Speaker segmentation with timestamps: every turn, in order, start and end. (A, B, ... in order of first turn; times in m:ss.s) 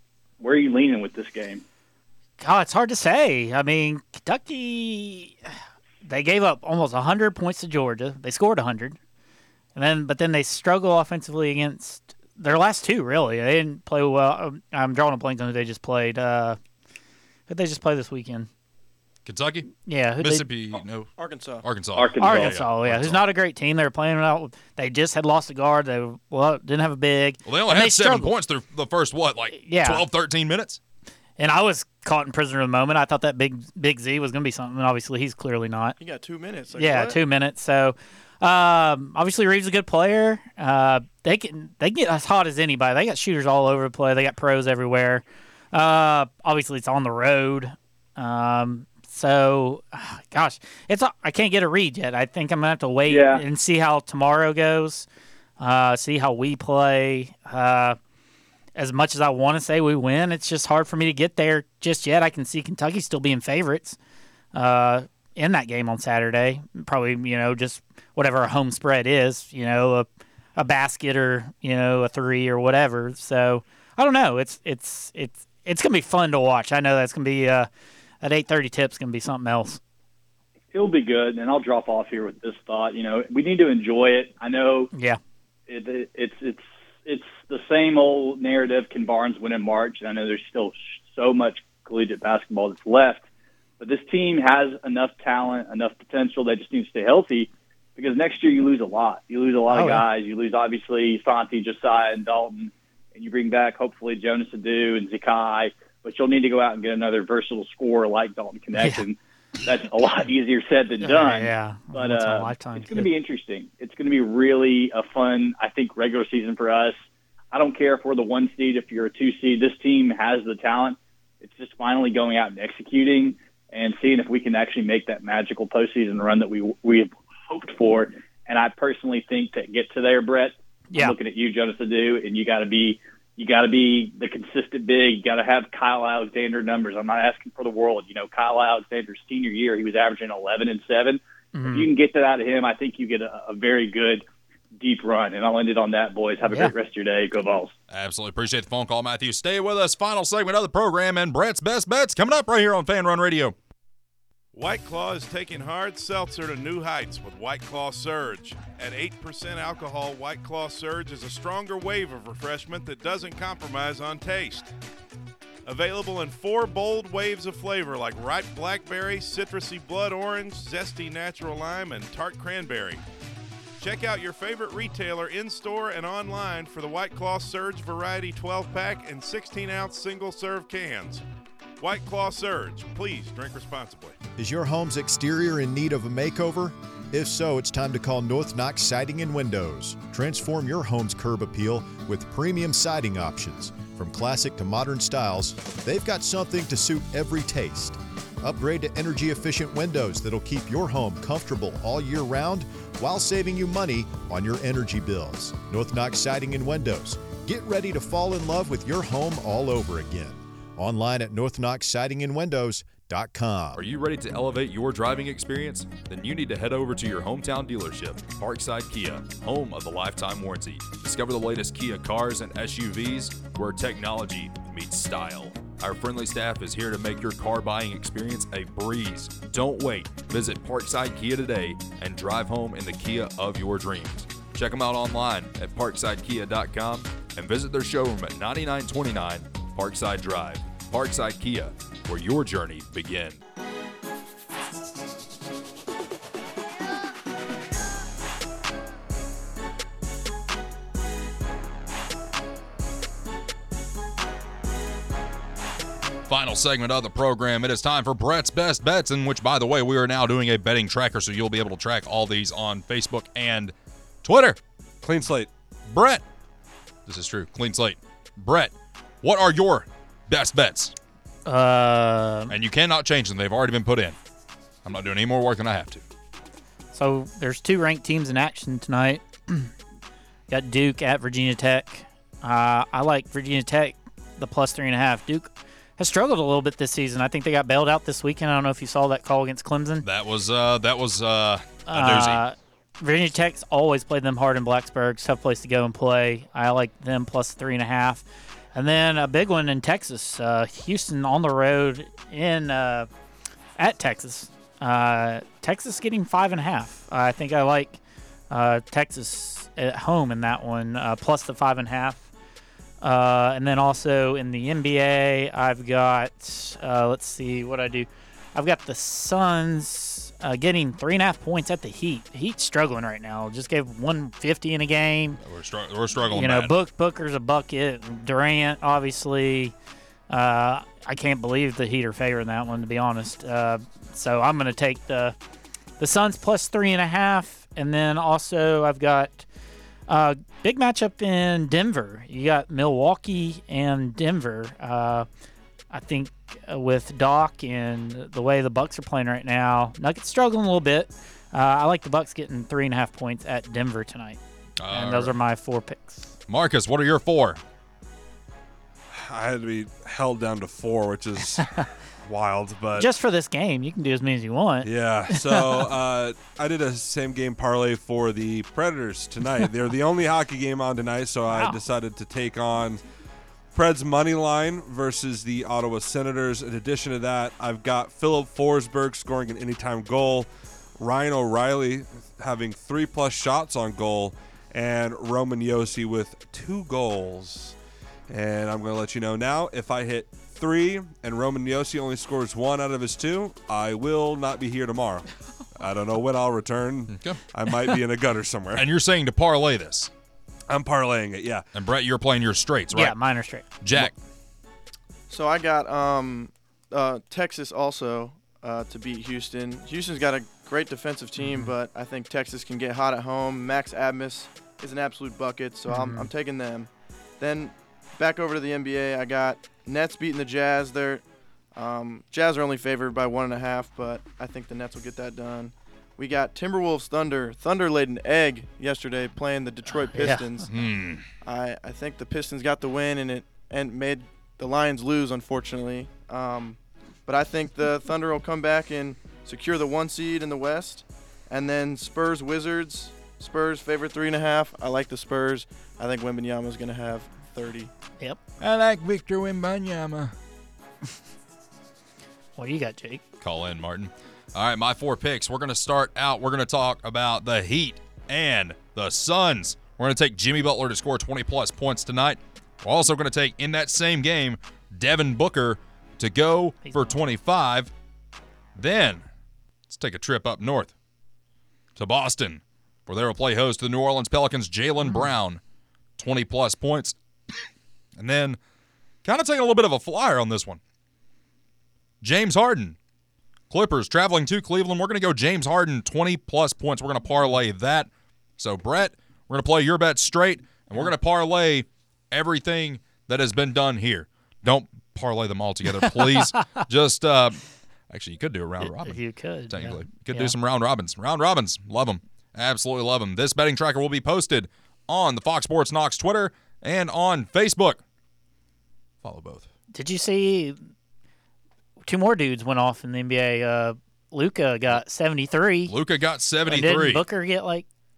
0:00.4-0:01.6 A
0:02.4-0:05.4 B
0:06.0-0:09.0 B
0:09.7-0:16.6 B
0:17.5-0:18.5 B
0:19.2-0:23.2 C
0:19.8-0:20.4 B
0:21.2-0:21.6 D
0:21.9-0:22.6 A
0:22.2-0:28.3 B
0:27.4-0:30.8 C
0:29.5-0:30.0 B
0:31.4-0:36.0 B
0:36.0-0:37.2 D
0:36.7-0:55.0 B
0:53.1-0:53.4 A
0:55.6-0:58.0 B
0:58.8-1:04.0 B
1:04.5-1:17.7 B
1:18.2-1:19.8 B
1:20.7-1:24.9 A
1:24.9-1:25.2 B
1:25.7-1:33.2 A
1:33.8-1:57.0 A
1:39.7-1:40.0 B
1:48.7-1:49.1 B
1:51.0-1:53.1 B
1:57.5-2:24.2 A
2:10.9-2:11.2 B
2:21.5-2:21.9 B
2:24.8-2:27.7 A
2:26.4-2:26.7 B
2:27.9-2:33.5 C
2:34.5-2:44.7 E
2:45.6-2:53.0 E
2:53.8-3:01.2 E
3:01.8-3:04.2 E
3:04.4-3:33.8 F
3:33.7-4:03.4 C
4:16.3-4:24.6 C
4:25.0-4:25.5 G
4:25.9-4:26.2 C
4:27.0-4:30.9 C
4:31.4-4:32.5 B
4:32.5-4:34.2 C
4:34.8-4:36.0 C
4:36.9-4:39.7 B
4:40.5-4:50.0 B
4:50.0-4:52.4 C
4:51.9-5:03.1 B
5:03.8-5:08.0 B
5:08.5-5:12.2 B
5:13.0-5:25.4 B
5:25.4-5:26.7 C
5:26.2-5:29.7 B
5:30.3-5:35.4 B
5:36.0-5:39.4 B
5:40.1-5:45.3 B
5:45.9-5:54.4 B
5:54.8-5:55.3 C
5:54.9-5:56.3 B
5:56.5-5:57.6 C
5:59.1-6:01.7 G
6:02.2-6:03.1 G
6:03.0-6:05.9 B
6:04.8-6:13.0 G
6:11.5-6:11.8 B
6:13.7-6:27.8 G
6:28.3-6:38.9 G
6:37.1-6:37.4 C
6:38.8-6:40.1 C
6:40.7-6:41.6 G
6:41.7-6:43.2 C
6:42.9-6:43.6 B
6:43.8-6:44.1 C
6:45.3-7:01.2 D
6:51.4-6:51.7 B
6:55.9-6:56.3 B
7:01.7-7:10.9 D
7:09.9-7:10.6 B
7:10.7-7:11.3 C
7:11.4-7:27.9 D
7:28.6-7:30.3 C
7:32.6-7:33.2 B
7:33.4-7:47.9 C
7:46.8-7:47.2 B
7:48.8-7:49.2 C
7:49.9-7:50.9 C
7:52.0-7:55.6 C
7:55.0-7:55.3 B
7:56.2-7:57.2 C
7:58.2-7:58.6 C
7:59.2-8:00.8 C
8:02.2-8:03.0 C
8:03.7-8:19.2 C
8:16.0-8:16.6 B
8:18.8-8:20.5 B
8:19.7-8:28.0 C
8:29.2-8:29.7 C
8:29.9-8:30.8 B
8:32.0-8:35.9 B
8:35.9-8:37.2 C
8:36.7-8:37.8 B